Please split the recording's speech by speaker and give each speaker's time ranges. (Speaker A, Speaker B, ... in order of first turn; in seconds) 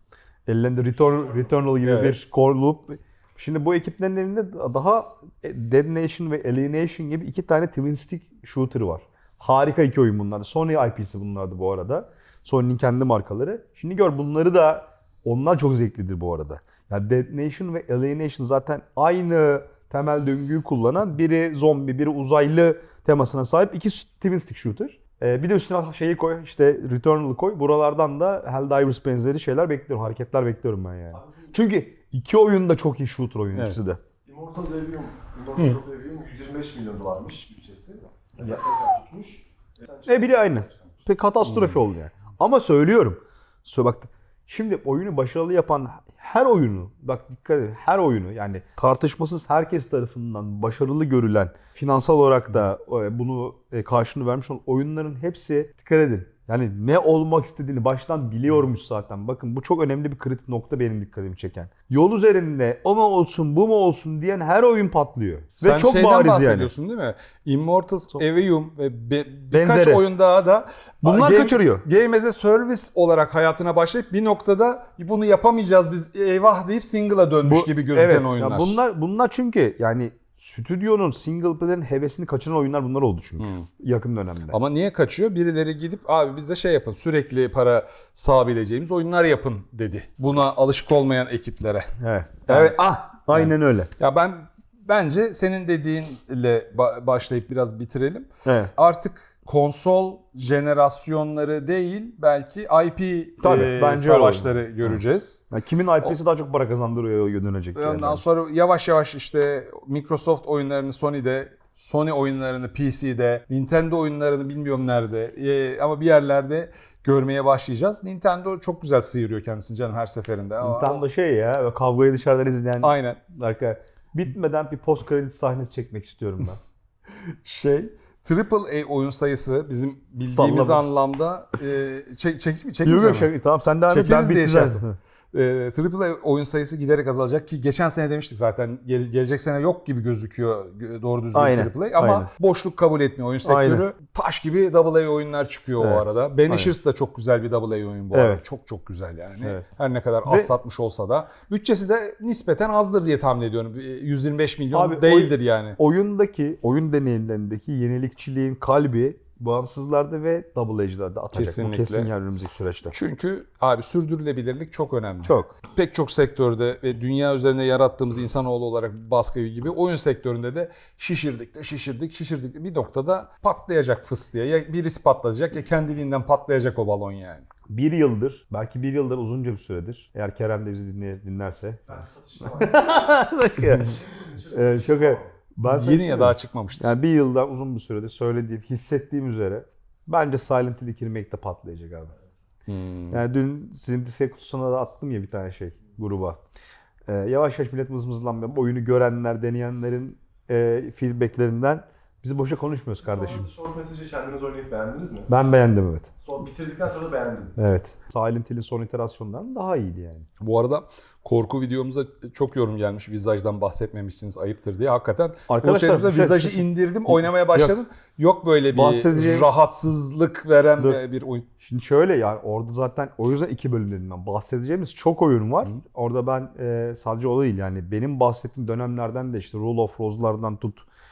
Speaker A: 0.5-34.0, 40.0-66.7, 69.5-70.0, 71.0-71.8, 77.4-84.6, 92.0-93.9, 98.4-98.7, 103.4-105.0, 105.5-108.2, 120.6-126.6, 130.3-130.8, 132.8-135.0, 141.3-142.3, 143.4-143.8, 145.8-146.7, 148.1-148.4, 150.2-150.5, 154.7-162.9, 165.2-165.5, 177.7-192.1, 193.1-196.4, 197.1-203.5, 205.3-206.1, 207.6-210.3, 215.5-217.8, 218.7-219.5, 220.8-221.0, 221.6-230.9
Speaker B: 1.8-2.2, 41.4-41.8, 65.6-78.8, 83.4-83.7, 84.5-91.9, 92.5-92.8, 93.3-105.5, 107.7-121.0, 122.8-123.2, 127.1-133.3, 133.9-155.8, 161.3-162.1, 162.9-177.4, 185.6-186.9, 192.7-193.2, 210.4-221.4
Speaker C: 34.2-40.7, 182.0-183.0, 184.1-185.2, 203.1-205.3, 206.2-207.5